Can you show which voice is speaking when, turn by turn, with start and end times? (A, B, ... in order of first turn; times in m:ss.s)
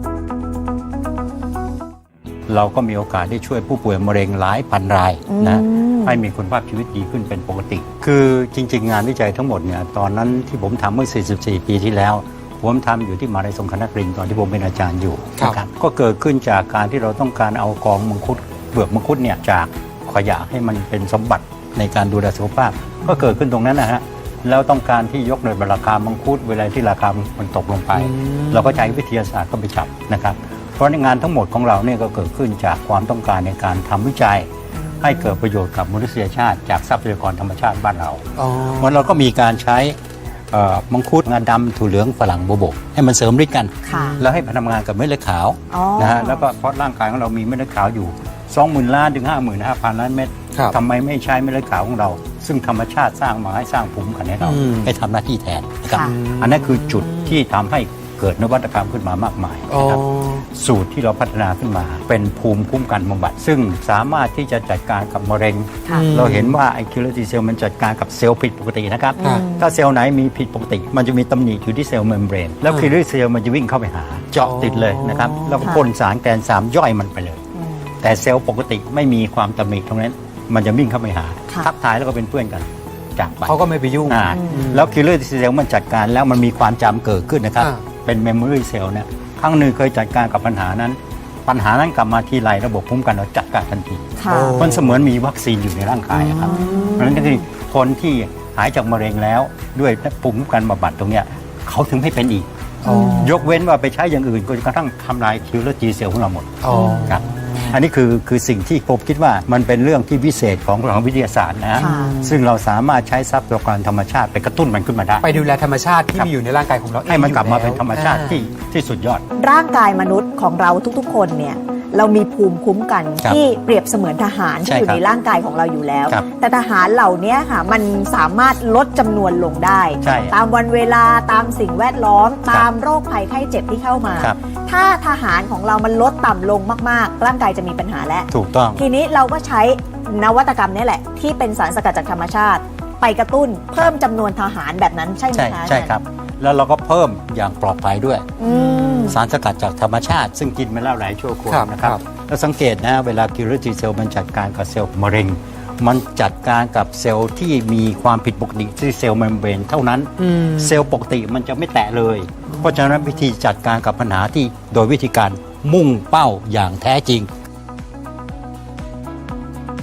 0:02.5-0:34.5 A
0:05.3-0:06.2 B
0:28.0-0:28.8 C
0:34.7-0:35.4 B
0:35.0-0:40.0 A
0:38.4-0:39.0 C
0:40.5-1:17.4 A
0:43.8-0:44.2 B
0:43.9-0:44.2 C
0:45.7-0:46.4 B
0:54.4-0:54.9 C
0:55.9-0:56.2 B
0:56.0-0:57.4 C
0:59.7-1:00.4 C
1:05.9-1:06.6 C
1:09.2-1:09.7 B
1:14.4-1:15.7 C
1:17.6-1:18.0 B
1:18.0-1:42.5 A
1:23.5-1:24.9 C
1:24.3-1:24.7 B
1:34.2-1:34.6 B
1:34.3-1:35.1 C
1:36.2-1:37.4 B
1:36.4-1:36.9 C
1:42.8-1:43.5 C
1:42.9-1:43.3 B
1:43.2-1:55.3 A
1:46.6-1:47.8 C
1:46.7-1:47.2 B
1:51.8-1:52.2 B
1:51.8-1:52.4 C
1:55.2-1:58.4 C
1:57.1-1:59.2 A
1:59.4-2:26.0 B
2:04.6-2:05.0 A
2:10.0-2:10.3 A
2:18.3-2:18.8 A
2:25.3-2:28.4 A
2:28.4-2:29.2 B
2:28.4-2:29.1 C
2:29.1-2:47.3 A
2:31.5-2:32.0 C
2:40.2-2:40.8 C